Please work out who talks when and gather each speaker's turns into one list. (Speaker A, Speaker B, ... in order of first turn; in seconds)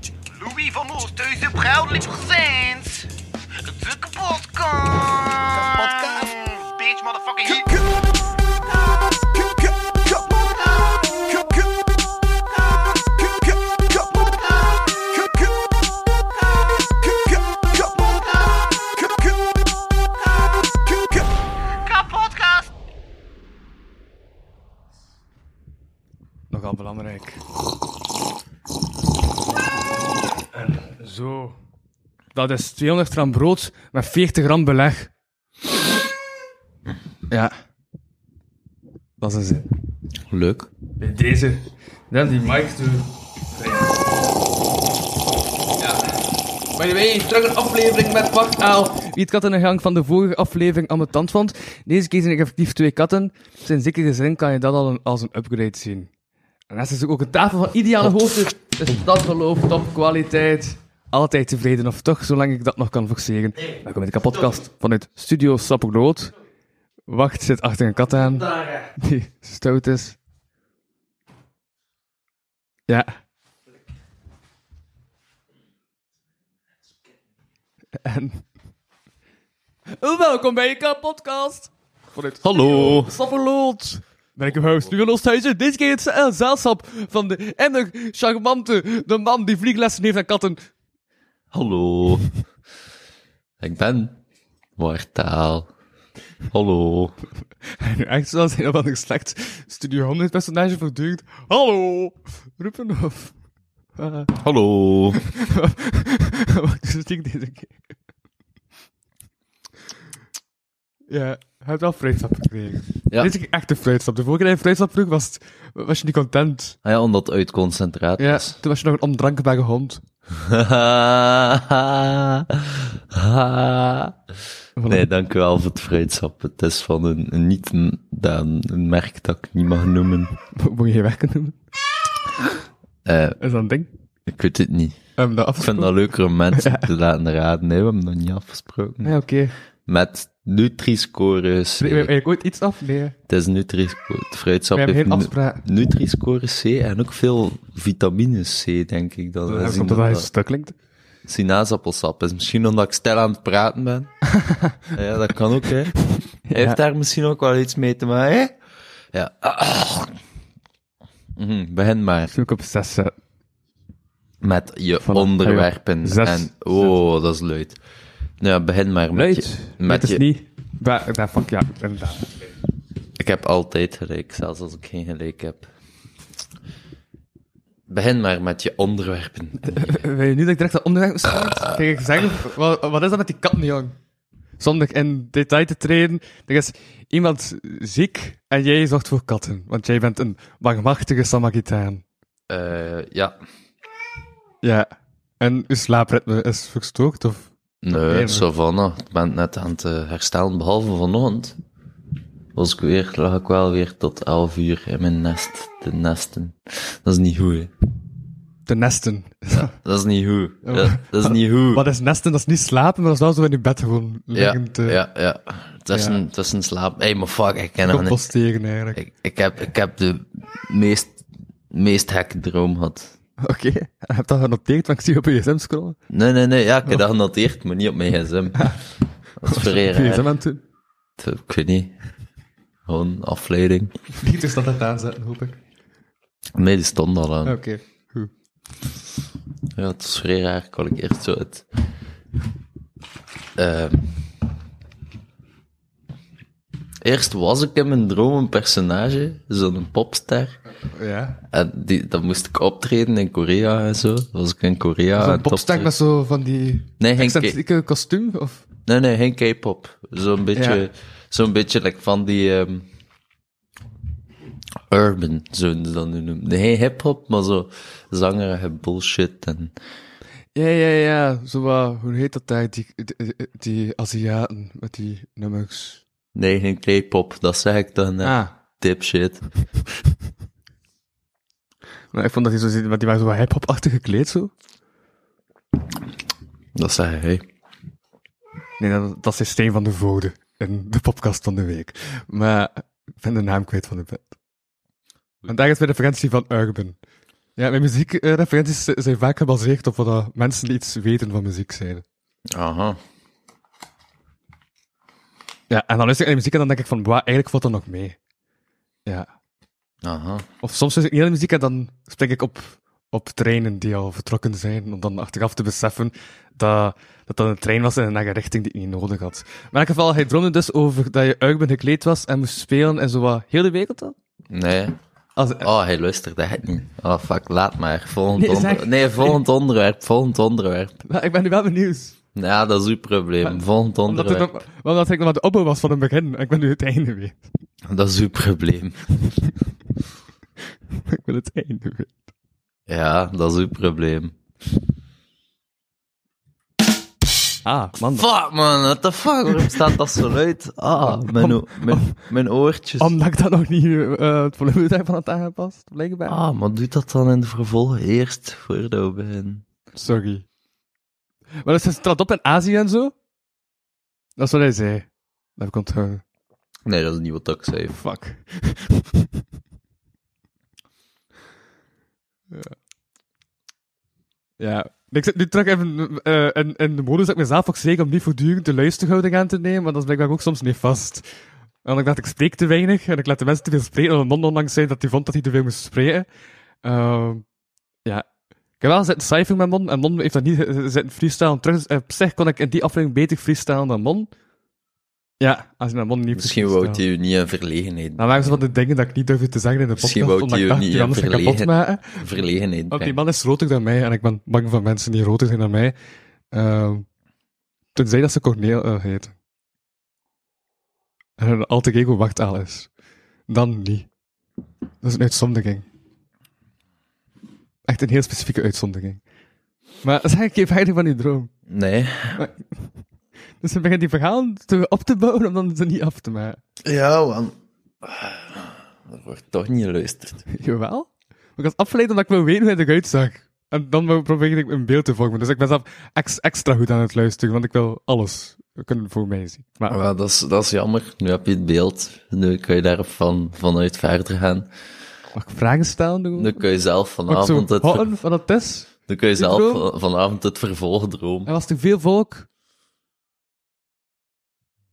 Speaker A: 0.5-2.6, 3.9-5.2, 21.9-22.5
Speaker B: 26.5-27.4, 30.5-31.6, 32.4-35.1, 39.2-39.7, 41.0-44.0, 45.8-46.2, 46.8-56.1, 56.7-66.3, 67.1-70.2, 72.9-73.1, 78.0-78.4, 80.0-90.7, 97.8-103.3, 104.0-104.3, 105.3-107.8, 111.1-116.8, 118.2-120.0, 124.8-125.1, 130.6-131.6, 133.4-133.9, 135.2-135.9, 136.5-136.9, 139.0-139.6, 141.8-143.2, 144.7-145.6, 149.5-150.7, 154.3-154.8, 156.1-156.8, 162.3-163.2, 165.0-166.9, 169.2-172.4, 179.6-184.0, 184.6-192.0, 194.6-194.9, 195.4-198.5, 208.7-209.7, 210.7-215.0, 215.9-216.2, 217.8-219.0, 223.4-226.0, 229.4-230.6, 234.2-235.6, 237.4-238.3, 250.9-251.4, 255.2-258.6, 260.6-260.8, 270.6-276.0, 278.2-278.5, 282.1-284.5, 288.8-294.3, 295.5-297.0, 297.6-302.0, 305.7-308.2, 310.6-324.1, 325.4-325.7, 328.4-329.4, 331.1-332.2, 333.4-337.4, 341.1-342.1, 347.6-348.3, 351.0-352.1, 353.0-356.4, 359.9-360.5, 361.6-363.1, 364.4-366.2, 367.9-369.3, 374.6-381.2, 381.8-386.3, 386.8-387.4, 388.8-394.3, 395.4-397.0, 398.2-402.3, 402.9-405.9, 406.5-407.1, 407.9-409.4, 411.4-412.9, 413.5-414.1, 415.0-415.9, 417.9-419.2, 420.0-421.5, 422.4-422.6, 423.6-426.6, 430.5-440.0, 445.4-446.6, 447.3-449.9, 451.5-452.5
Speaker C: 40.3-40.7, 82.4-83.2, 84.6-84.9, 91.5-92.3, 93.6-94.2, 94.8-95.7, 96.5-97.1, 104.4-105.2, 116.8-118.5, 120.3-124.2, 124.9-130.4, 133.1-133.4, 134.3-135.0, 135.6-139.1, 139.9-142.1, 143.3-150.3, 151.3-154.1, 154.9-155.9, 156.5-158.6, 159.1-160.2, 161.4-162.3, 164.4-167.8, 168.4-170.2, 173.2-175.7, 177.9-180.0, 192.5-193.4, 197.8-201.6, 202.6-207.7, 209.5-211.8, 214.3-218.2, 218.9-221.2, 221.7-223.2, 226.1-228.8, 229.4-230.3, 231.2-231.9, 232.9-233.9, 236.6-237.6, 239.8-241.7, 243.6-244.1, 247.0-250.6, 251.4-255.9, 257.0-257.6, 258.9-262.9, 264.9-269.7, 276.4-279.4, 286.8-287.4, 302.5-303.0, 310.0-310.4, 324.5-325.0, 325.6-331.0, 332.4-334.5, 337.9-339.3, 342.9-344.3, 348.2-353.1, 356.3-359.6, 366.9-368.0, 396.4-398.6, 400.0-403.1, 421.7-422.4, 426.8-430.5, 439.9-444.7, 446.4-448.1, 449.1-451.5